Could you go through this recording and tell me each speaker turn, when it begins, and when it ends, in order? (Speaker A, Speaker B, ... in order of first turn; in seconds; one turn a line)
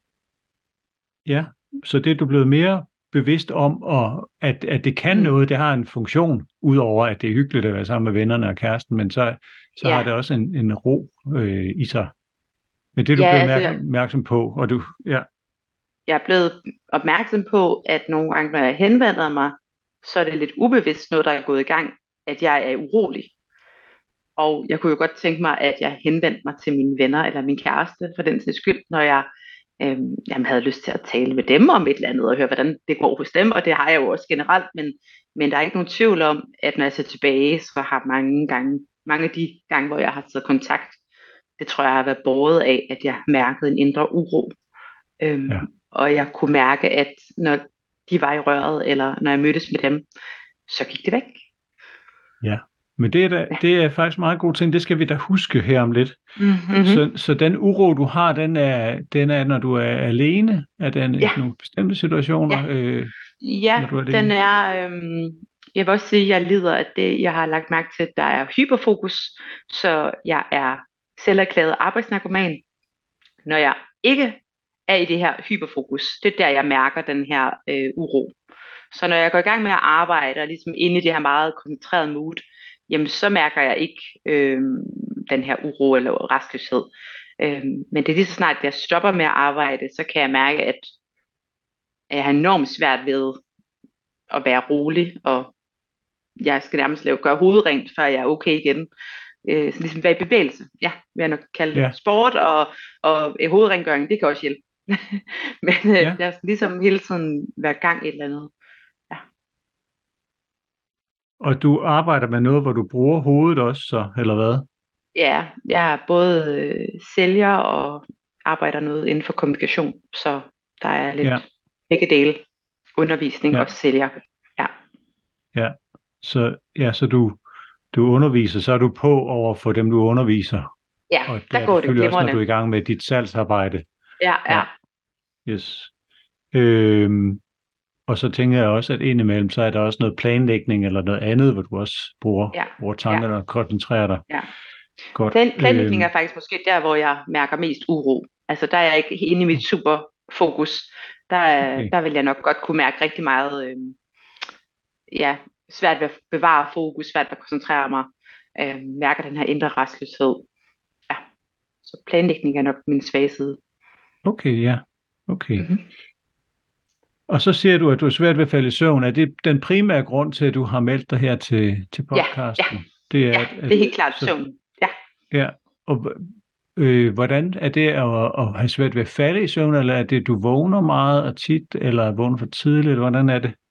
Speaker A: 1.2-12.1
Speaker B: 9.8-10.1
Speaker A: 12.9-15.3
Speaker B: 13.2-13.8
Speaker B: 16.1-23.3
Speaker B: 24.4-41.0
Speaker B: 41.6-44.5
Speaker B: 45.2-50.0
Speaker B: 50.7-51.4
Speaker A: 52.4-56.2
Speaker B: 56.4-57.0
Speaker A: 56.8-63.1
Speaker B: 63.4-72.6
Speaker A: 63.8-64.3
Speaker B: 73.4-78.4
Speaker B: 78.9-90.9
Speaker B: 92.1-93.4
Speaker B: 94.3-95.5
Speaker B: 96.4-98.9
Speaker B: 99.4-108.5
Speaker A: 111.4-114.7
Speaker B: 115.1-122.4
Speaker B: 123.0-124.7
Speaker A: 125.5-127.4
Speaker A: 127.9-130.7
Speaker B: 131.1-132.4
Speaker A: 131.3-133.8
Speaker B: 134.2-134.7
Speaker A: 135.4-135.9
Speaker A: 136.5-137.4
Speaker A: 138.1-144.2
Speaker B: 142.5-143.2
Speaker A: 145.1-146.1
Speaker B: 145.3-154.0
Speaker A: 151.6-151.9
Speaker B: 155.1-160.4
Speaker B: 161.8-163.6
Speaker A: 164.2-165.7
Speaker B: 165.6-165.8
Speaker A: 167.3-174.3
Speaker B: 172.1-172.8
Speaker B: 173.3-174.9
Speaker A: 175.3-183.6